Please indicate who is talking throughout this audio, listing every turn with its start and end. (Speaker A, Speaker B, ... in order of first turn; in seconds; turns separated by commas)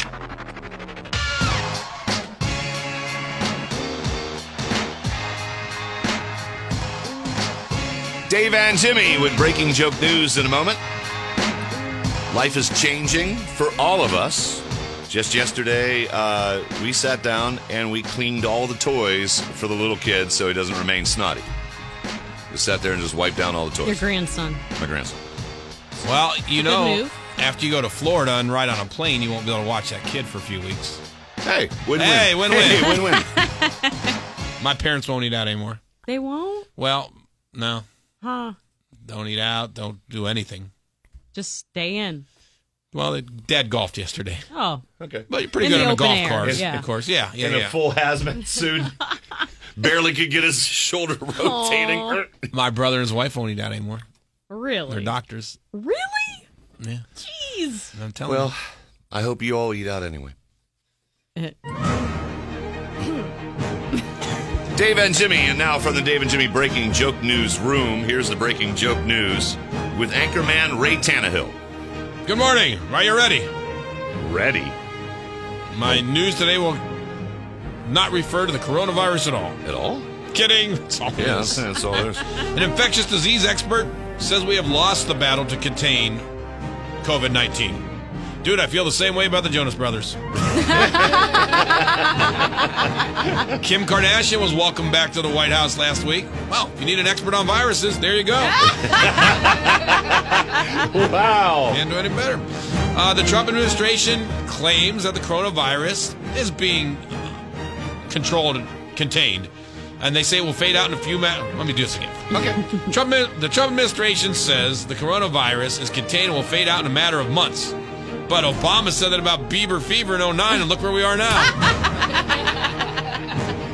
Speaker A: 8.3-10.8, Speaker A: 12.3-21.5, Speaker A: 22.5-24.0, Speaker B: 23.8-24.6, Speaker A: 24.8-25.2, Speaker C: 25.9-31.0, Speaker B: 26.5-27.2, Speaker A: 31.4-33.3, Speaker C: 31.9-33.0, Speaker B: 32.7-34.1, Speaker C: 34.6-35.8, Speaker B: 36.0-36.7, Speaker C: 36.8-37.9, Speaker B: 38.2-38.5, Speaker C: 39.0-40.7, Speaker B: 41.3-42.2, Speaker C: 42.9-44.5, Speaker B: 44.5-44.8, Speaker A: 45.0-45.3, Speaker C: 45.3-47.8, Speaker B: 45.6-46.9, Speaker A: 47.4-49.1, Speaker A: 49.7-52.5, Speaker B: 51.4-52.2, Speaker C: 52.5-54.0, Speaker B: 54.5-55.1, Speaker C: 54.9-55.6, Speaker B: 55.7-56.5, Speaker C: 56.8-57.1, Speaker B: 57.2-57.9, Speaker C: 57.9-58.5, Speaker A: 58.2-60.3, Speaker A: 64.7-71.5, Speaker C: 72.2-73.5, Speaker A: 74.2-74.7, Speaker C: 75.7-76.8, Speaker C: 77.8-79.6, Speaker A: 79.6-80.0, Speaker C: 80.3-86.2, Speaker A: 81.2-82.3, Speaker C: 87.0-87.8, Speaker C: 88.4-90.2, Speaker A: 90.6-91.9, Speaker C: 93.5-98.7, Speaker A: 98.6-101.8, Speaker C: 101.7-107.4, Speaker C: 108.1-112.3, Speaker A: 112.3-112.6, Speaker C: 112.8-117.7, Speaker C: 118.3-121.7